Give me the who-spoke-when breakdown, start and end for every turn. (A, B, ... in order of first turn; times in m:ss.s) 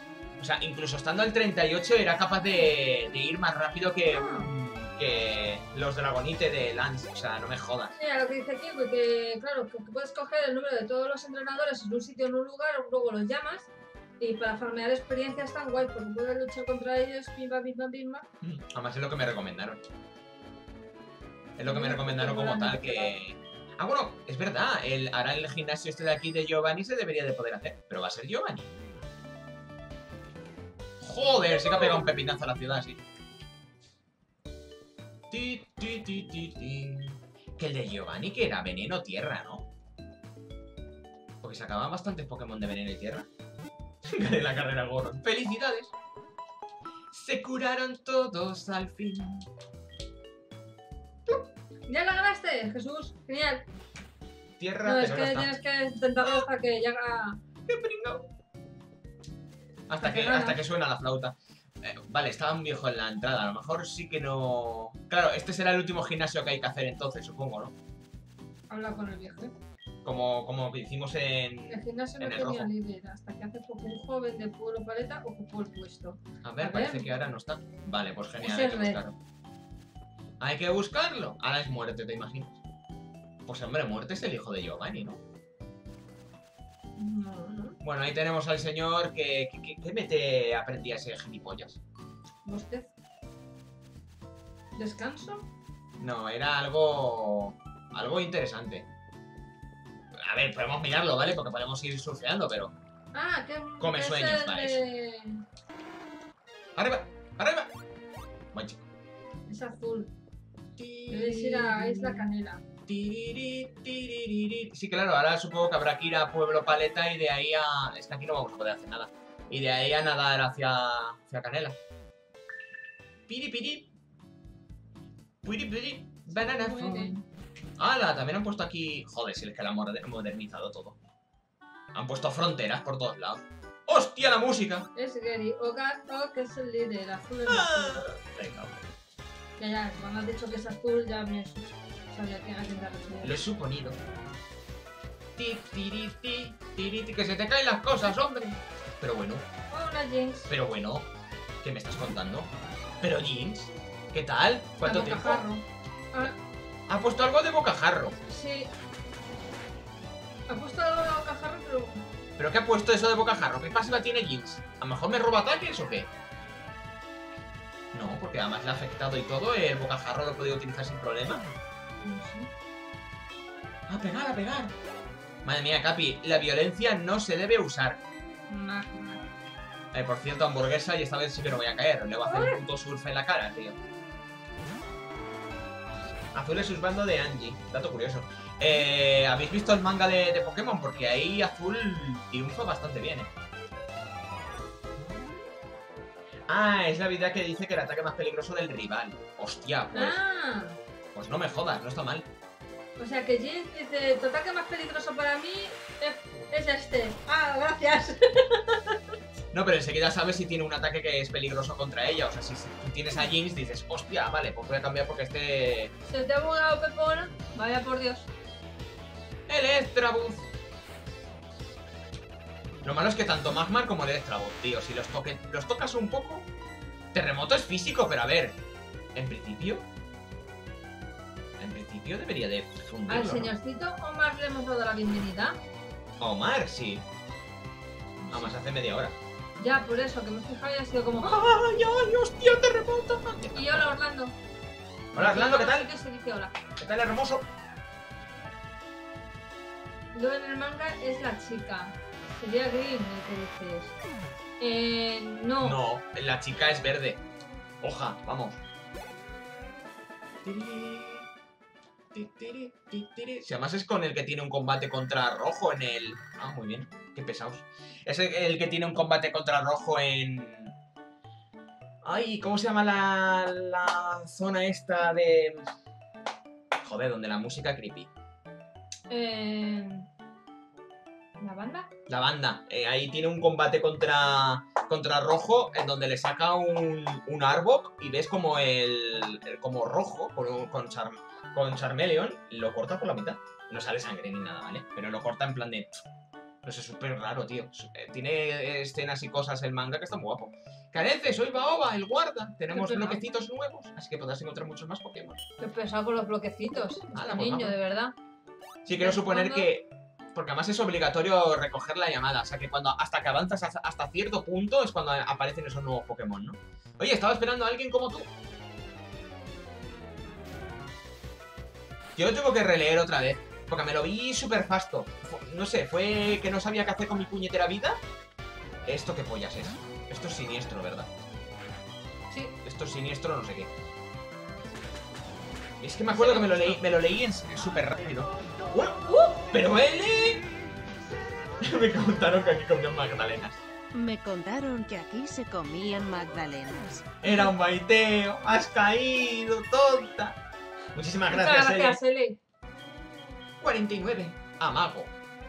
0:00.4-0:08.0 A
0:04.1-0:04.5 B
0:08.0-0:18.3 B
0:18.4-0:19.8 A
0:21.6-0:28.8 A
0:21.7-0:23.1 B
0:31.0-0:33.0 A
0:31.6-0:32.1 B
0:35.3-0:39.7 A
0:41.4-0:43.3 A
0:44.0-0:45.9 A
0:47.1-0:49.5 A
0:51.9-0:53.7 B
0:54.6-0:55.5 A
0:54.8-0:57.4 B
0:57.7-0:58.3 A
0:59.9-1:07.7 A
1:00.0-1:00.6 B
1:08.7-1:09.5 B
1:10.0-1:12.7 A
1:11.7-1:17.2 B
1:16.4-1:19.2 A
1:18.4-1:19.0 B
1:20.4-1:22.6 A
1:23.5-1:25.2 A
1:27.0-1:27.8 B
1:27.8-1:31.8 A
1:32.4-1:32.9 B
1:34.8-1:35.5 B
1:36.0-1:38.9 A
1:40.2-1:42.7 A
1:43.1-1:45.4 B
1:43.8-1:44.8 A
1:46.8-1:47.7 A
1:48.5-1:48.8 A
1:49.5-1:50.1 B
1:50.8-1:52.2 A
1:51.1-1:52.6 B
1:52.9-2:01.8 A
2:03.3-2:03.9 A
2:05.4-2:07.2 A
2:06.3-2:07.2 B
2:07.8-2:11.0 A
2:11.9-2:14.9 A
2:15.0-2:18.0 B
2:17.5-2:18.8 A
2:19.6-2:23.4 B
2:23.2-2:24.0 A
2:25.4-2:28.4 A
2:28.0-2:28.6 B
2:29.0-2:29.5 A
2:29.7-2:30.5 B
2:30.5-2:31.1 A
2:31.6-2:35.4 A
2:34.8-2:36.3 B
2:36.9-2:38.2 A
2:38.3-2:38.7 B
2:40.5-2:42.1 B
2:42.4-2:46.1 A
2:47.9-2:51.4 A
2:52.0-2:52.5 B
2:53.9-2:54.7 A
2:55.4-2:58.0 A
2:58.5-2:59.3 B
2:59.9-3:03.8 A
3:02.2-3:02.6 B
3:06.3-3:13.3 A
3:16.5-3:20.2 A
3:19.9-3:20.8 B
3:21.1-3:22.3 A
3:23.0-3:29.2 B
3:29.5-3:35.9 A
3:36.1-3:38.3 B
3:39.5-3:40.5 A
3:42.8-3:46.5 A
3:47.1-3:48.6 A
3:49.2-3:49.9 A
3:51.6-3:53.5 A
3:53.1-3:55.6 B
3:56.2-3:57.1 A
3:58.2-3:59.2 A
3:59.6-4:01.6 B
4:01.2-4:04.0 A
4:03.5-4:04.4 B
4:05.1-4:05.9 A
4:05.2-4:06.6 B
4:06.8-4:07.5 A
4:10.1-4:14.0 B
4:14.6-4:15.8 B
4:15.6-4:17.2 A
4:17.8-4:18.6 A
4:20.4-4:21.3 A
4:22.1-4:30.7 A
4:32.0-4:35.7 A
4:36.8-4:38.1 A
4:39.1-4:40.1 B
4:41.4-4:41.9 B
4:42.1-4:56.0 A
4:56.6-5:05.4 A
5:02.7-5:03.2 B
5:05.6-5:08.2 B
5:07.1-5:07.8 A
5:08.8-5:18.3 A
5:08.9-5:09.7 B
5:22.2-5:28.0 A
5:28.9-5:31.1 A
5:32.3-5:32.6 B
5:32.6-5:33.7 A
5:35.8-5:40.5 A
5:36.1-5:36.8 B
5:39.0-5:39.4 B
5:41.6-5:43.6 A
5:43.9-5:47.1 C
5:47.2-5:50.4 A
5:50.9-5:52.0 A
5:51.3-5:52.4 B
5:53.6-5:55.1 A